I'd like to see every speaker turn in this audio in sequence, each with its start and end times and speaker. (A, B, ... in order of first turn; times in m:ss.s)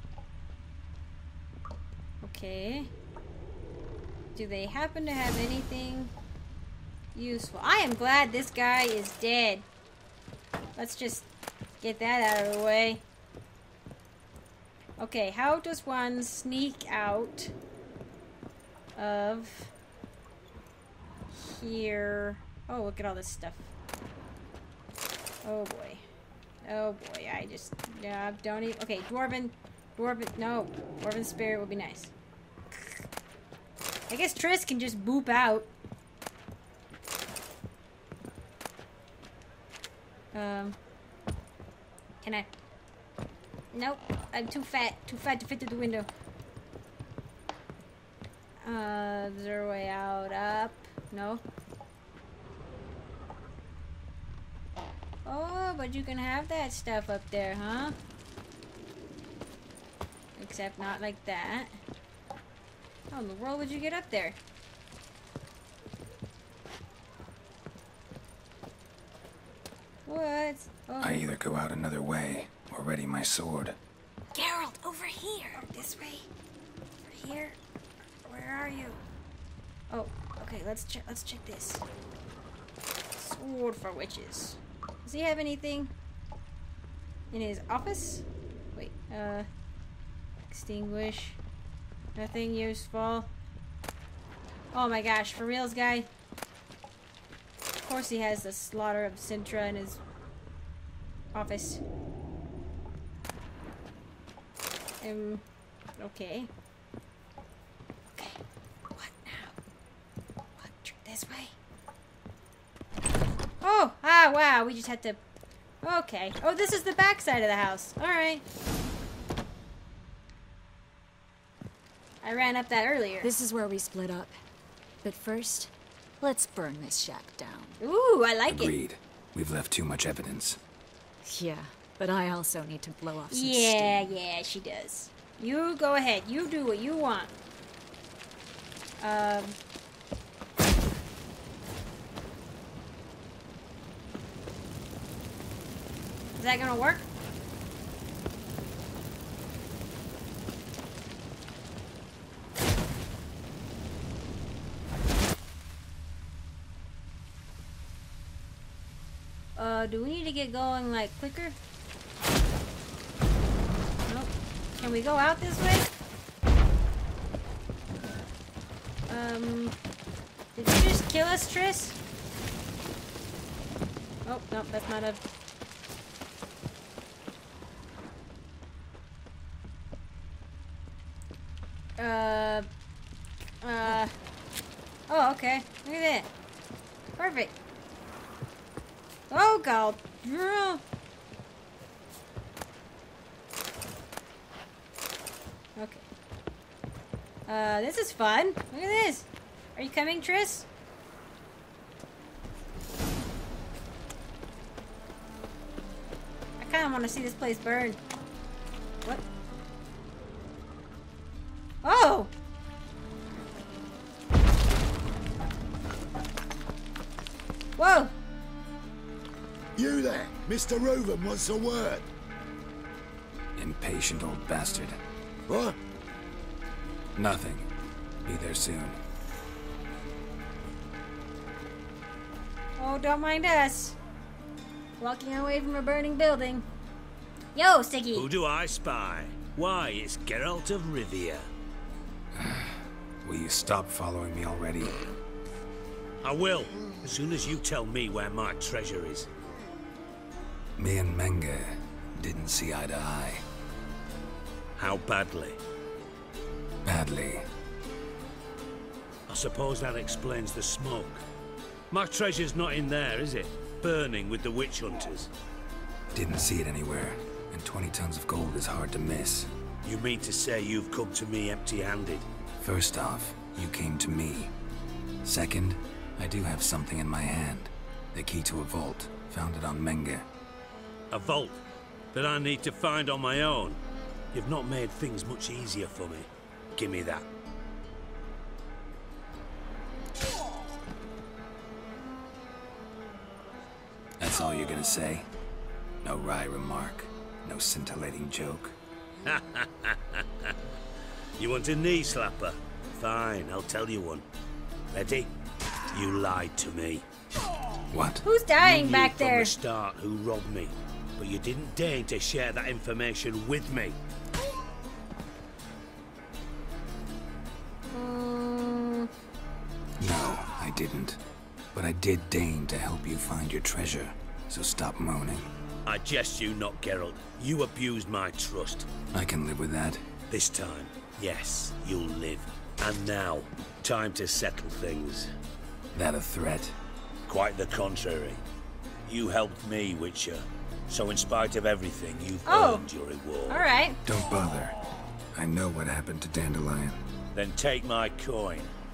0:02.2-0:02.9 A
0:04.4-0:06.1 A
0:07.2-0:09.7 A
0:10.8-0:11.3 A
0:11.8-0:13.0 A
0:15.0-0:17.5 A
0:19.0-0:19.7 A
0:21.3-0:23.7 A
0:25.4-0:26.0 A
0:26.6-0:32.1 A
0:32.7-0:33.0 A
0:34.1-0:35.7 A
0:40.3-0:40.8 A
0:42.2-0:42.5 A
0:43.7-0:46.1 A
0:48.6-0:51.4 A
0:55.2-0:58.0 A
1:00.4-1:01.7 A
1:03.1-1:04.4 A
1:10.1-1:11.3 A
1:11.0-1:13.8 B
1:14.3-1:15.6 C
1:15.6-1:16.3 A
1:17.1-1:17.6 A
1:18.2-1:19.0 A
1:19.9-1:21.8 A
1:23.2-1:25.9 A
1:27.3-1:28.2 A
1:28.8-1:29.5 A
1:30.5-1:31.4 A
1:32.2-1:33.3 A
1:34.7-1:36.1 A
1:37.8-1:40.0 A
1:41.3-1:41.8 A
1:45.0-1:45.4 A
1:46.0-1:46.5 A
1:49.0-1:49.5 A
1:50.6-1:51.5 A
1:53.6-1:55.2 A
1:55.8-1:58.4 A
2:02.2-2:03.3 A
2:03.2-2:04.4 C
2:05.0-2:07.8 C
2:07.8-2:08.8 A
2:08.5-2:10.6 B
2:11.2-2:14.0 C
2:13.3-2:17.4 A
2:19.0-2:19.6 A
2:26.4-2:27.1 A
2:39.6-2:41.6 A
2:44.1-2:45.9 A
2:49.1-2:49.8 A
2:50.6-2:52.0 A
2:54.3-2:55.2 A
3:02.0-3:02.7 A
3:03.6-3:04.1 A
3:05.1-3:06.3 A
3:07.2-3:07.6 A
3:09.3-3:10.8 A
3:15.8-3:16.0 A
3:17.5-3:20.7 A
3:26.6-3:28.0 A
3:31.8-3:32.3 A
3:37.8-3:38.1 A
3:39.8-3:42.1 D
3:43.6-3:45.0 B
3:45.5-3:45.8 D
3:47.2-3:47.7 B
3:48.2-3:49.0 B
3:52.8-3:54.0 A
3:55.0-3:56.7 A
3:57.6-3:58.3 A
3:58.1-4:01.5 E
4:02.3-4:05.1 B
4:06.2-4:09.3 E
4:10.8-4:13.4 B
4:14.8-4:15.6 E
4:16.8-4:17.5 B
4:19.3-4:21.2 E
4:21.9-4:25.3 E
4:26.1-4:29.5 B
4:29.8-4:32.3 E
4:32.6-4:34.5 B
4:35.2-4:40.3 B
4:41.1-4:41.6 E
4:42.1-4:43.8 E
4:44.3-4:47.3 E
4:54.2-4:55.3 B
4:56.0-4:58.8 B
4:59.2-5:00.6 E
5:01.4-5:04.2 E
5:04.9-5:05.3 E
5:05.9-5:07.0 E
5:07.9-5:08.2 B
5:08.2-5:09.5 A
5:08.6-5:14.0 E
5:17.9-5:19.1 A
5:20.0-5:21.2 B
5:21.7-5:25.5 B
5:25.9-5:28.9 E
5:29.1-5:30.1 B
5:30.3-5:35.3 E
5:35.9-5:36.8 B
5:37.3-5:38.4 E
5:39.1-5:43.7 E
5:42.5-5:42.9 A
5:43.5-5:44.0 A
5:44.1-5:44.7 B
5:45.3-5:47.0 B
5:47.3-5:48.7 E